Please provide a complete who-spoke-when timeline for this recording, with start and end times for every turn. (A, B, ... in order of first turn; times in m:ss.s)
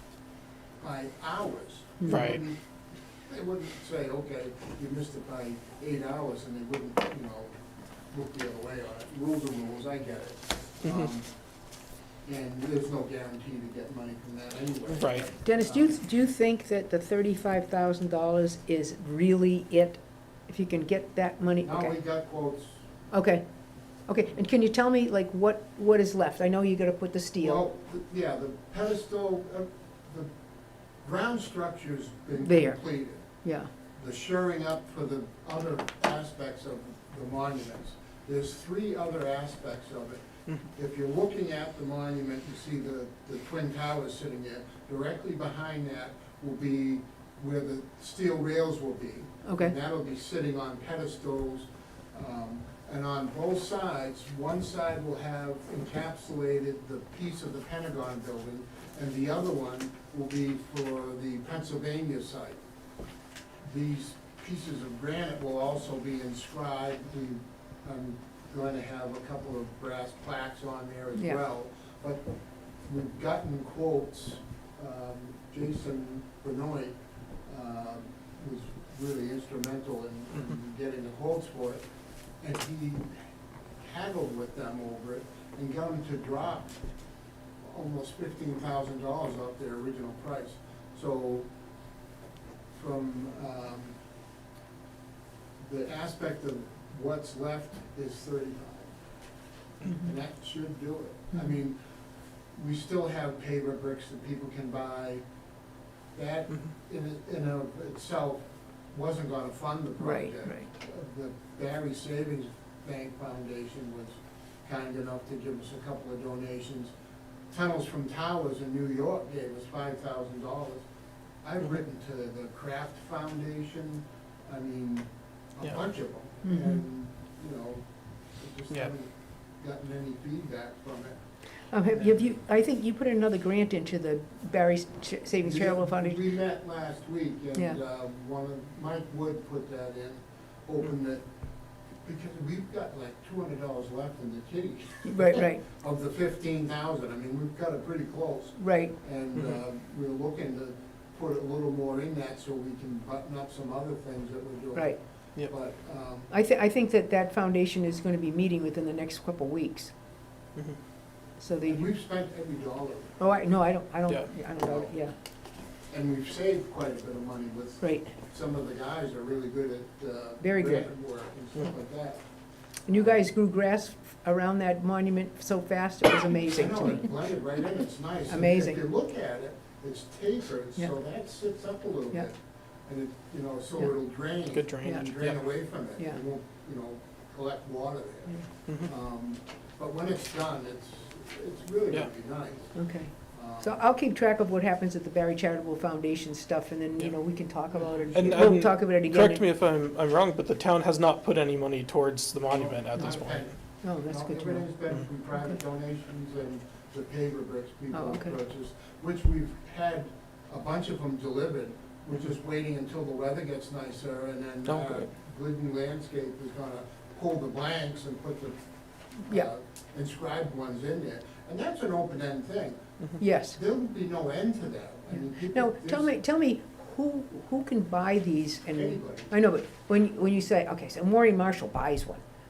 0:00.8-0:02.6 A
0:02.1-0:02.4 B
0:03.2-0:07.5 A
0:08.1-0:11.3 A
0:12.2-0:15.9 A
0:15.0-0:15.3 B
0:15.4-0:22.0 C
0:21.6-0:22.8 A
0:23.1-0:23.4 C
0:24.1-0:27.6 C
0:27.4-0:30.3 A
0:31.0-0:33.3 A
0:32.4-0:33.7 C
0:34.0-1:02.6 A
0:49.4-0:49.7 C
1:03.7-1:12.2 A
1:12.9-1:21.8 A
1:22.4-1:23.1 A
1:23.8-1:26.8 A
1:27.6-1:31.5 A
1:32.8-1:34.0 A
1:35.6-1:38.9 A
1:39.8-1:40.1 C
1:39.9-1:41.8 A
1:42.6-1:45.2 A
1:46.2-1:56.9 A
1:50.0-1:50.7 C
1:57.5-2:00.8 A
2:01.4-2:07.8 A
2:06.4-2:06.8 C
2:08.4-2:11.2 A
2:11.7-2:16.2 C
2:11.9-2:12.4 A
2:15.4-2:21.2 A
2:22.0-2:36.3 A
2:25.0-2:25.6 C
2:28.6-2:29.0 C
2:36.3-2:39.9 C
2:41.4-2:41.9 C
2:41.7-2:43.2 A
2:43.2-2:45.1 C
2:44.6-2:44.9 A
2:45.9-2:52.2 A
2:47.8-2:48.1 C
2:50.4-2:50.9 C
2:52.9-2:57.2 C
2:52.9-2:53.2 A
2:56.5-3:12.8 A
2:58.3-2:58.8 C
3:04.5-3:05.5 B
3:04.8-3:05.1 C
3:12.8-3:19.4 C
3:13.3-3:13.8 A
3:17.7-3:18.3 A
3:18.1-3:23.4 B
3:22.4-3:38.6 A
3:23.8-3:24.7 C
3:27.9-3:28.3 C
3:34.7-3:35.0 B
3:39.2-3:42.8 A
3:43.2-3:43.6 C
3:43.5-3:46.2 A
3:45.2-3:52.2 C
3:48.7-3:49.3 A